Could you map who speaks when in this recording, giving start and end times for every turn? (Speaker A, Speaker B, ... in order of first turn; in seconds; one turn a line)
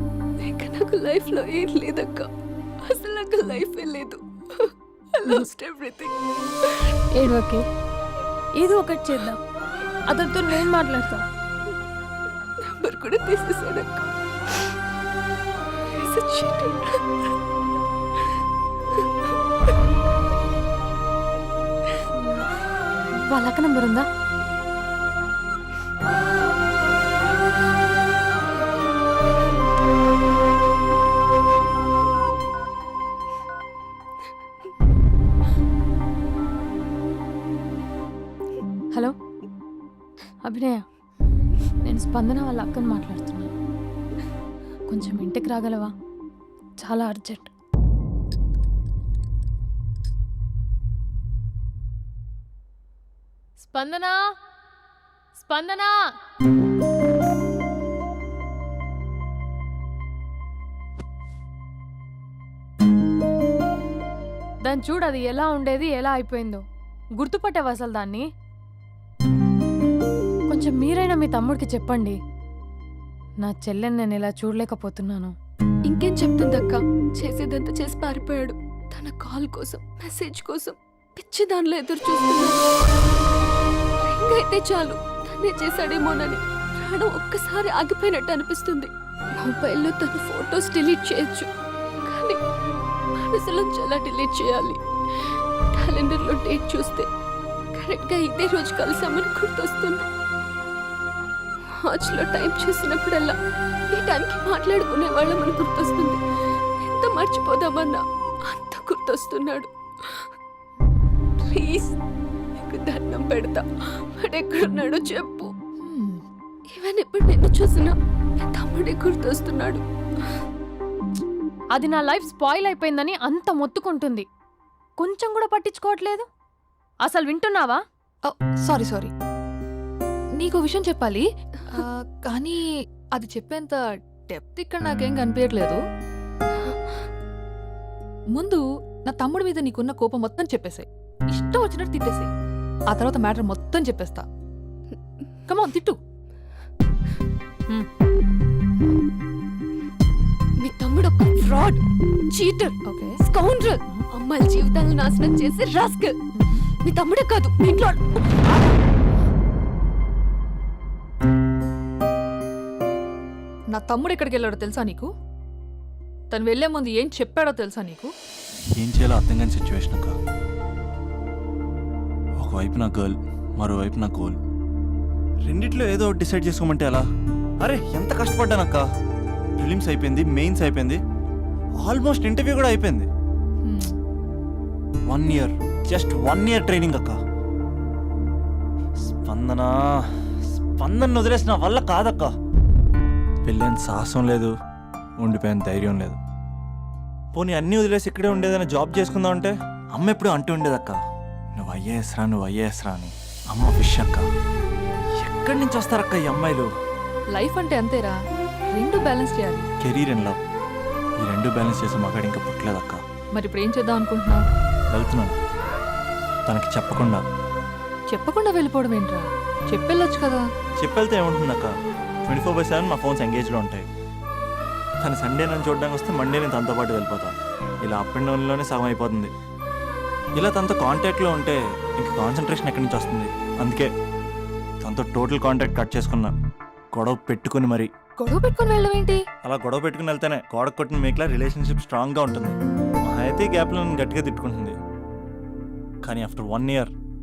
Speaker A: 0.4-2.3
Speaker A: 2.9-6.1
Speaker B: 7.1-7.6
Speaker B: 8.6-9.4
Speaker B: 10.1-11.2
Speaker A: 12.7-14.1
Speaker A: 15.9-17.0
Speaker B: 23.3-24.0
Speaker B: 40.4-40.8
Speaker B: 41.8-43.5
Speaker B: 44.9-45.9
Speaker B: 46.8-47.5
Speaker B: 53.6-54.1
Speaker B: 55.4-55.9
Speaker B: 64.6-66.6
Speaker B: 67.2-68.2
Speaker B: 70.5-72.2
Speaker B: 73.4-75.3
Speaker A: 75.9-83.0
Speaker A: 84.0-91.5
Speaker A: 92.0-92.4
Speaker A: 93.2-94.8
Speaker A: 95.7-97.1
Speaker A: 97.7-100.0
Speaker A: 101.8-103.3
Speaker A: 103.9-106.2
Speaker A: 106.8-109.7
Speaker A: 111.5-112.0
Speaker A: 112.5-115.5
Speaker C: 115.8-116.2
Speaker A: 116.7-119.8
Speaker B: 121.7-124.2
Speaker B: 125.0-126.2
Speaker B: 127.0-127.8
Speaker C: 128.2-129.1
Speaker C: 130.4-132.6
Speaker C: 133.2-135.8
Speaker C: 138.3-142.3
Speaker C: 142.9-144.2
Speaker C: 145.5-146.0
Speaker A: 150.6-156.2
Speaker C: 152.9-153.2
Speaker A: 156.8-158.7
Speaker C: 163.7-165.1
Speaker C: 166.3-168.1
Speaker D: 168.7-170.2
Speaker D: 172.4-174.4
Speaker D: 175.4-177.1
Speaker D: 177.6-178.8
Speaker D: 179.6-181.0
Speaker D: 181.8-183.1
Speaker C: 183.6-183.9
Speaker D: 185.1-187.2
Speaker D: 189.1-189.7
Speaker D: 190.5-192.3
Speaker D: 193.4-194.5
Speaker D: 195.2-196.2
Speaker D: 197.3-201.0
Speaker D: 201.6-204.2
Speaker D: 205.2-206.7
Speaker C: 207.3-208.1
Speaker C: 208.7-209.7
Speaker D: 209.8-210.4
Speaker D: 211.2-213.0
Speaker C: 213.3-214.4
Speaker D: 214.9-215.3
Speaker D: 216.5-217.2
Speaker C: 218.1-220.4
Speaker D: 220.8-221.7
Speaker D: 222.2-223.9
Speaker D: 225.0-227.3
Speaker D: 227.8-229.3
Speaker D: 230.3-233.9
Speaker D: 234.8-236.3
Speaker D: 236.9-237.9
Speaker C: 238.2-239.2
Speaker D: 239.4-244.8
Speaker D: 246.0-246.9